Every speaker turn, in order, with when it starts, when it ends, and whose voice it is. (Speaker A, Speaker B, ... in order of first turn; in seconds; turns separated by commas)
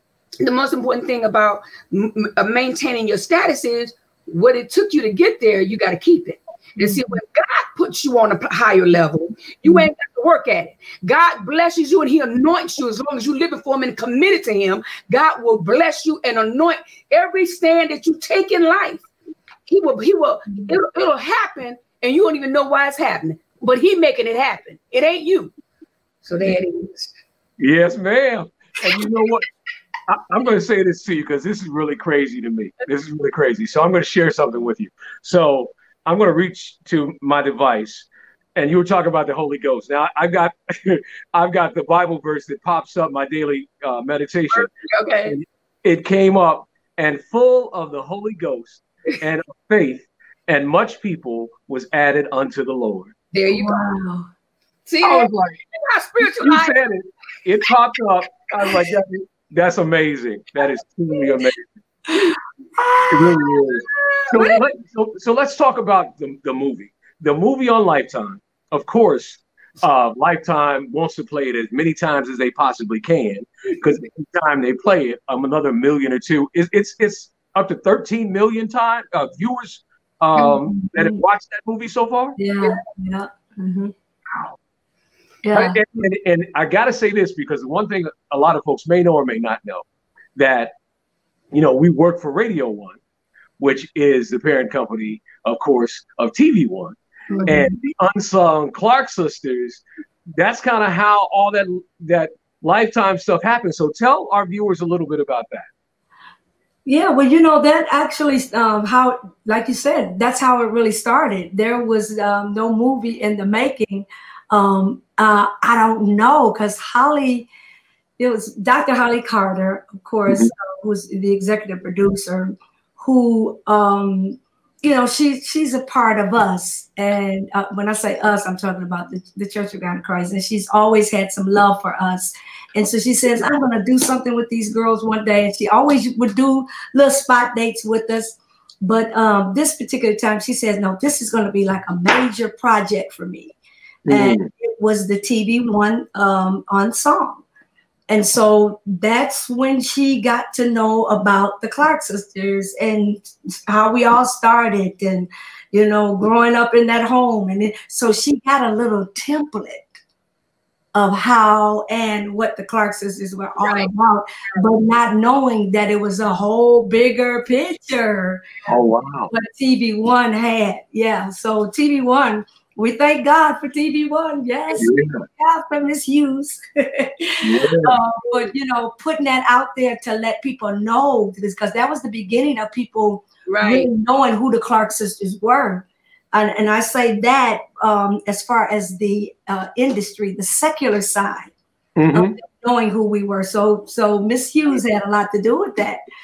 Speaker A: 0.4-19.0, Speaker A: 19.6-25.5, Speaker A: 26.2-27.1, Speaker B: 27.6-29.5, Speaker B: 30.1-44.7, Speaker A: 44.5-45.4, Speaker B: 45.2-53.1, Speaker A: 53.3-53.8, Speaker C: 53.5-54.3, Speaker A: 54.9-56.8, Speaker B: 55.0-55.6, Speaker B: 56.2-61.6, Speaker C: 62.1-63.7, Speaker B: 63.1-82.4, Speaker A: 64.0-64.6, Speaker C: 80.3-81.2, Speaker C: 82.4-83.9, Speaker C: 85.4-85.8, Speaker B: 85.5-89.8, Speaker B: 90.3-90.7, Speaker B: 91.5-93.0, Speaker B: 93.6-99.8, Speaker C: 97.3-97.8, Speaker B: 100.3-105.7, Speaker C: 106.8-117.5, Speaker C: 118.2-143.6, Speaker B: 144.1-144.5, Speaker C: 144.1-147.4, Speaker C: 148.1-159.9, Speaker C: 160.9-168.4, Speaker A: 163.6-163.9, Speaker B: 168.7-169.3, Speaker C: 169.3-191.5, Speaker B: 174.8-175.2, Speaker B: 177.4-177.9, Speaker A: 183.5-183.9, Speaker B: 192.0-192.4, Speaker C: 192.1-196.0